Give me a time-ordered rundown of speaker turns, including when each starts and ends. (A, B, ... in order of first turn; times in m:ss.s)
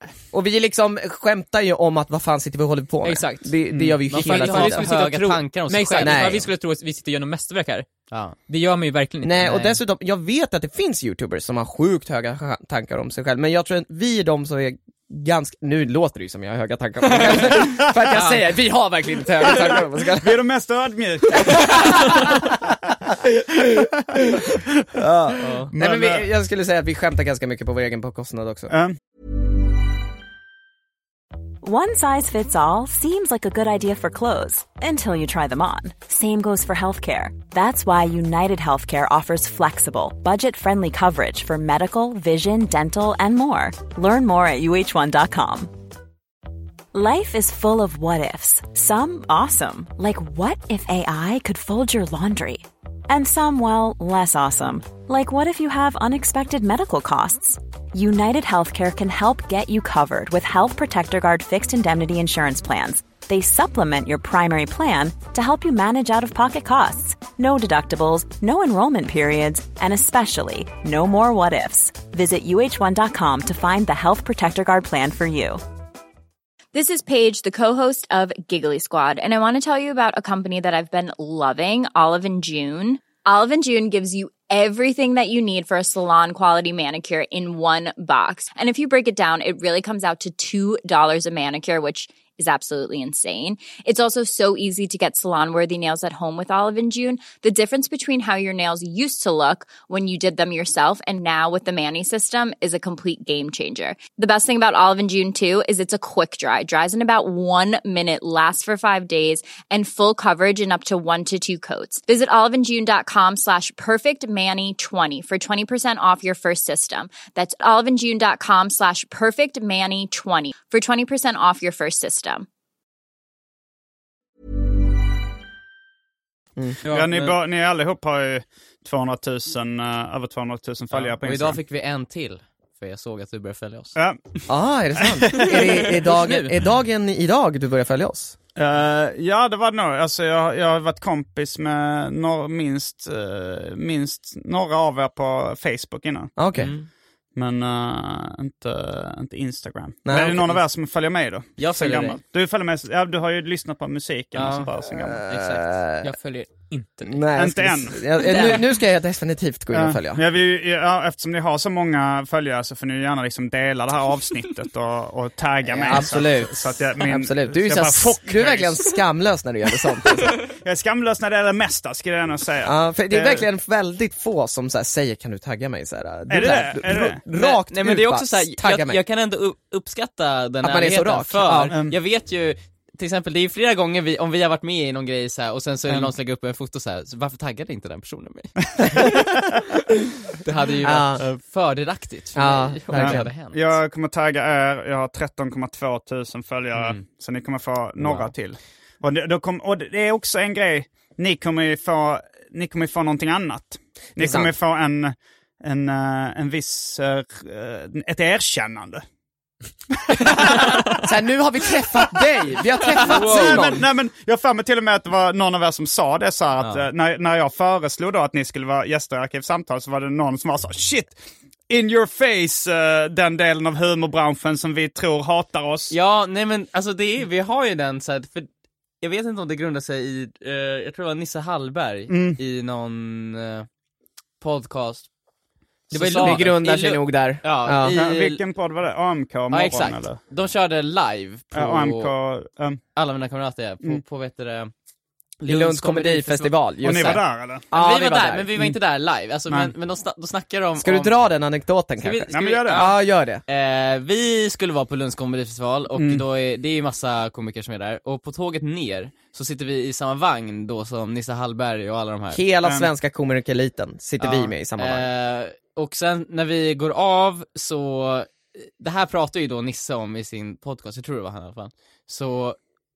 0:00.3-0:04.9 A
0:03.0-0:03.6 B
0:03.7-0:04.0 C
0:04.1-0:06.5 D
0:04.1-0:07.9 B
0:06.0-0:06.5 A
0:08.1-0:08.4 D
0:08.5-0:09.8 B
0:09.2-0:20.4 A
0:17.6-0:17.8 C
0:19.4-0:22.3 C
0:21.3-0:22.4 A
0:25.0-0:28.7 A
0:25.4-0:25.7 D
0:25.7-0:26.3 C
0:28.7-0:29.0 C
0:31.6-0:45.7 E
0:46.9-1:15.6 E
1:16.7-2:02.5 F
2:06.9-2:07.3 B
2:06.9-2:11.6 C
2:10.9-2:14.0 D
2:14.5-2:18.4 A
2:15.0-2:15.6 C
2:18.6-2:26.3 C
2:26.4-2:26.7 A
2:26.6-2:26.9 D
2:27.4-2:35.2 C
2:30.1-2:30.6 A
2:31.6-2:32.2 D
2:34.4-2:34.7 D
2:34.9-2:36.2 A
2:35.3-2:35.6 D
2:36.0-2:37.3 B
2:37.0-2:40.2 A
2:37.4-2:38.3 C
2:38.3-2:38.6 B
2:39.7-2:48.9 C
2:45.7-2:46.2 D
2:45.7-2:50.4 A
2:50.5-2:53.4 C
2:52.6-2:59.0 A
2:56.3-2:57.2 C
2:57.3-3:09.2 D
3:00.6-3:01.7 A
3:01.7-3:02.0 C
3:08.8-3:09.2 C
3:10.4-3:13.7 D
3:10.8-3:11.2 A
3:12.4-3:13.3 A
3:12.9-3:29.0 C
3:16.8-3:17.0 D
3:18.0-3:18.3 D
3:24.2-3:24.5 A
3:30.1-3:31.1 C
3:31.0-3:33.8 A
3:32.9-3:33.8 D
3:33.0-3:41.2 C
3:36.6-3:36.9 D
3:41.7-3:45.9 C
3:45.9-3:48.5 D
3:49.0-3:53.7 D
3:52.1-3:52.4 C
3:54.4-3:55.1 D
3:55.9-3:58.4 D
3:55.9-3:56.4 B
3:56.1-3:58.0 A
3:57.9-4:00.2 C
3:59.5-4:02.1 D
4:01.5-4:02.8 C
4:03.0-4:04.7 D
4:05.4-4:08.5 A
4:05.4-4:11.1 D
4:06.8-4:07.6 C
4:10.8-4:13.4 A
4:12.0-4:13.0 D
4:12.3-4:12.9 C
4:13.5-4:22.4 D
4:16.0-4:16.2 C
4:22.3-4:25.1 A
4:24.2-4:32.6 D